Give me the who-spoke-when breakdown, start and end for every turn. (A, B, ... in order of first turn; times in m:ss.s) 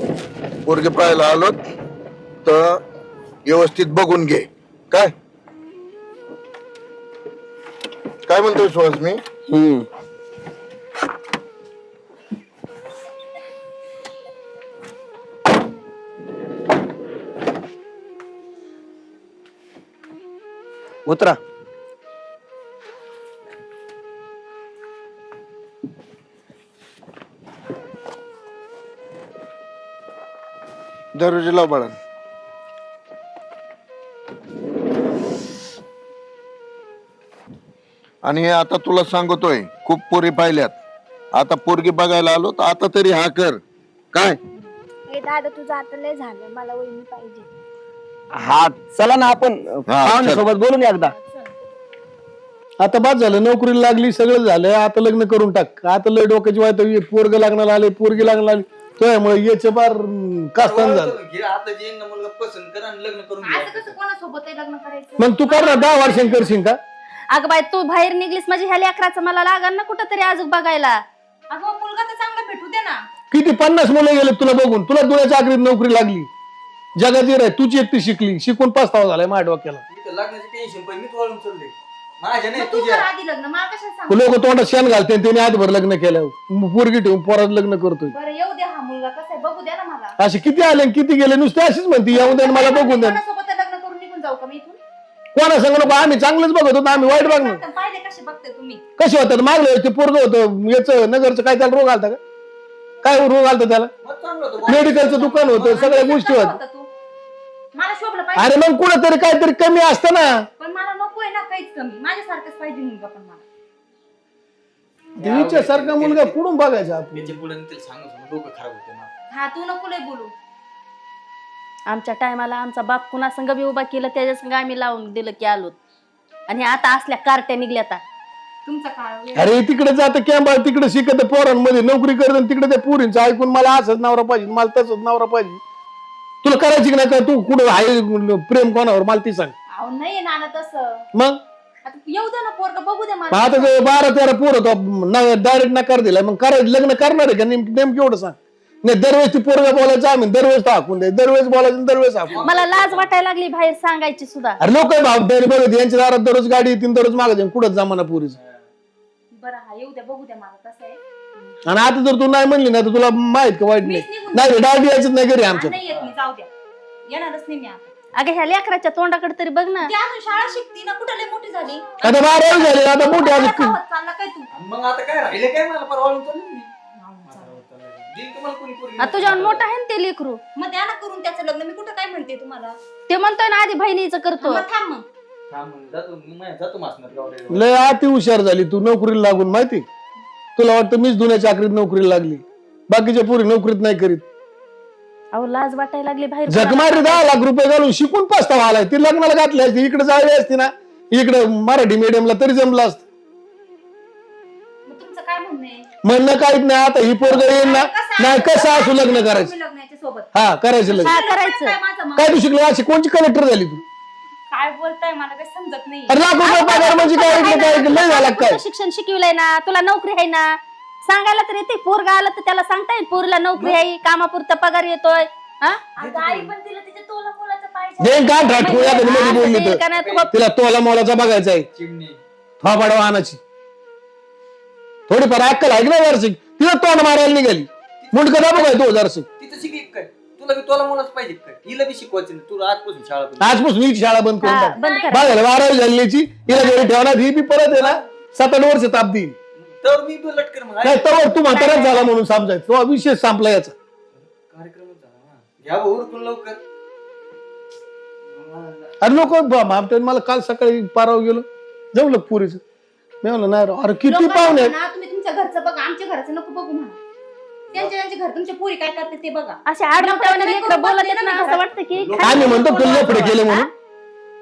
0:00.6-0:01.6 A
0:02.4-0:02.8 A
0:03.5-0:05.1 A
0:08.3-0:09.2 A
0:09.5-0:09.9 B
0:21.1-0:21.4 B
0:31.1-0:32.0 A
0:38.2-0:40.8 A
0:41.3-0:43.6 A
0:44.1-0:44.4 A
0:45.1-0:47.5 C
0:48.3-0:51.2 B
0:49.9-0:50.4 A
0:52.8-1:01.2 D
1:00.6-1:04.0 E
1:03.4-1:06.5 F
1:05.2-1:06.8 D
1:07.3-1:11.0 G
1:11.5-1:13.1 F
1:13.3-1:16.3 D
1:17.0-1:19.8 D
1:19.9-1:23.1 E
1:22.5-1:24.4 F
1:24.1-1:28.2 D
1:28.1-1:30.2 F
1:30.2-1:33.2 D
1:32.1-1:34.8 F
1:35.4-1:37.6 D
1:36.9-1:38.8 F
1:39.0-1:42.2 D
1:43.0-1:43.9 D
1:44.0-1:45.8 E
1:44.6-1:46.6 D
1:44.6-1:46.9 F
1:47.7-1:48.6 F
1:48.4-1:50.5 D
1:50.6-1:53.4 F
1:55.2-1:56.4 E
1:55.2-1:57.4 D
1:57.1-1:59.1 E
1:59.3-2:00.3 F
2:01.9-2:05.8 G
2:06.5-2:08.0 G
2:08.7-2:09.6 F
2:09.4-2:15.6 D
2:16.4-2:19.5 D
2:19.7-2:21.0 F
2:21.1-2:21.4 D
2:21.8-2:23.8 F
2:23.3-2:32.6 D
2:32.3-2:33.1 E
2:32.4-2:34.6 G
2:34.6-2:38.4 D
2:38.4-2:38.6 E
2:39.3-2:41.6 F
2:41.6-2:45.8 D
2:43.8-2:44.6 F
2:45.5-2:46.5 F
2:45.9-2:46.1 E
2:47.1-2:47.9 F
2:48.2-2:49.9 G
2:49.8-2:54.5 F
2:52.0-2:53.8 D
2:54.5-2:56.7 E
2:57.0-2:57.6 F
2:57.3-2:59.7 E
2:59.0-3:00.4 G
3:00.6-3:02.8 F
3:03.1-3:04.6 G
3:04.4-3:05.0 F
3:05.5-3:07.7 E
3:07.5-3:09.9 D
3:10.6-3:14.2 D
3:15.3-3:17.3 G
3:16.5-3:23.1 D
3:24.9-3:25.9 F
3:26.0-3:29.5 D
3:27.3-3:30.3 F
3:30.3-3:31.2 D
3:30.9-3:32.4 F
3:31.0-3:31.8 G
3:32.2-3:33.8 D
3:34.5-3:36.2 F
3:36.1-3:38.6 D
3:36.4-3:45.8 G
3:37.4-3:37.7 F
3:46.0-3:49.4 F
3:46.0-3:46.5 E
3:48.0-3:51.7 D
3:48.6-3:50.3 G
3:49.9-3:50.3 E
3:51.8-3:52.2 E
3:52.6-3:53.4 D
3:55.1-3:59.3 D
3:58.0-3:58.7 E
3:59.4-4:03.6 E
4:03.4-4:09.4 D
4:04.4-4:05.4 G
4:04.8-4:05.2 F
4:09.6-4:11.4 E
4:10.8-4:13.7 D
4:11.5-4:12.1 G
4:14.2-4:16.6 E
4:18.3-4:18.9 E
4:19.0-4:22.6 D
4:23.2-4:24.7 D
4:24.1-4:27.0 F
4:27.7-4:31.6 F
4:29.7-4:33.0 G
4:32.0-4:33.4 E
4:32.2-4:33.7 D
4:32.7-4:33.7 F